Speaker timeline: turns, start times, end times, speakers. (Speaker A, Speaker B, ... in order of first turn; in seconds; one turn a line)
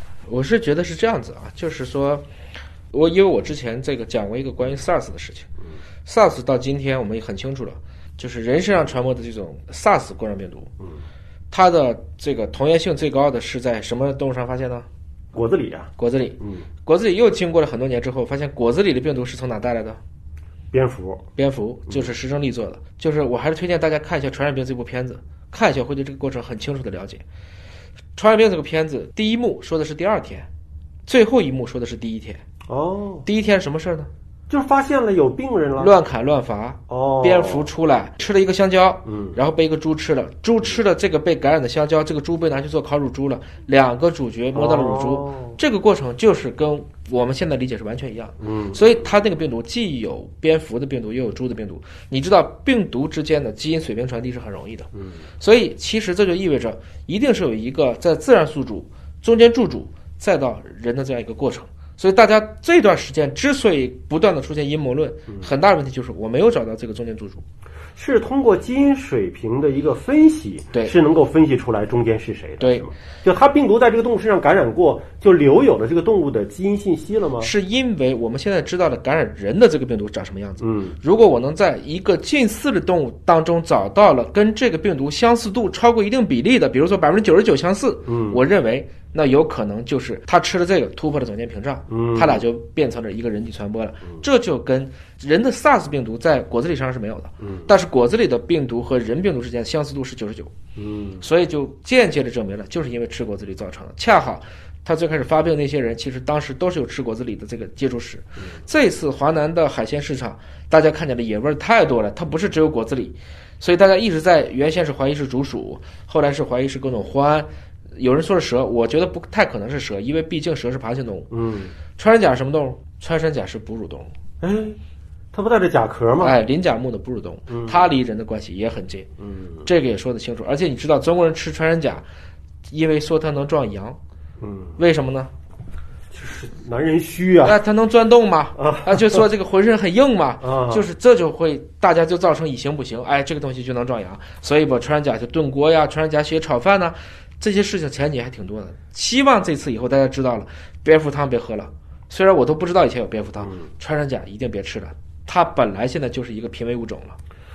Speaker A: 0.3-2.2
Speaker A: 2.9-5.5
Speaker A: 6.0-10.7
Speaker A: 11.5-14.9
Speaker B: 15.3-16.7
Speaker A: 16.0-20.0
Speaker B: 20.7-21.2
Speaker A: 21.4-27.2
Speaker A: 28.2-30.5
Speaker A: 31.1-32.4
Speaker B: 32.7-33.2
Speaker A: 33.2-34.1
Speaker B: 34.5-35.9
Speaker A: 35.8-67.4
Speaker B: 36.9-37.7
Speaker B: 39.0-39.4
Speaker B: 44.5-45.6
Speaker B: 48.4-49.1
Speaker B: 68.0-77.5
Speaker A: 72.6-72.9
Speaker A: 77.4-100.5
Speaker B: 80.6-81.0
Speaker B: 88.0-88.4
Speaker B: 91.9-92.4
Speaker B: 97.4-97.7
Speaker B: 100.8-101.3
Speaker A: 101.2-121.3
Speaker B: 121.3-121.7
Speaker A: 122.0-124.1
Speaker B: 124.4-124.8
Speaker B: 125.3-126.4
Speaker A: 126.2-129.1
Speaker B: 127.5-127.9
Speaker B: 129.2-129.6
Speaker A: 129.6-132.1
Speaker A: 132.7-134.0
Speaker B: 134.4-134.8
Speaker A: 134.8-135.3
Speaker B: 136.1-137.6
Speaker A: 137.4-157.2
Speaker B: 138.6-139.2
Speaker B: 140.4-140.9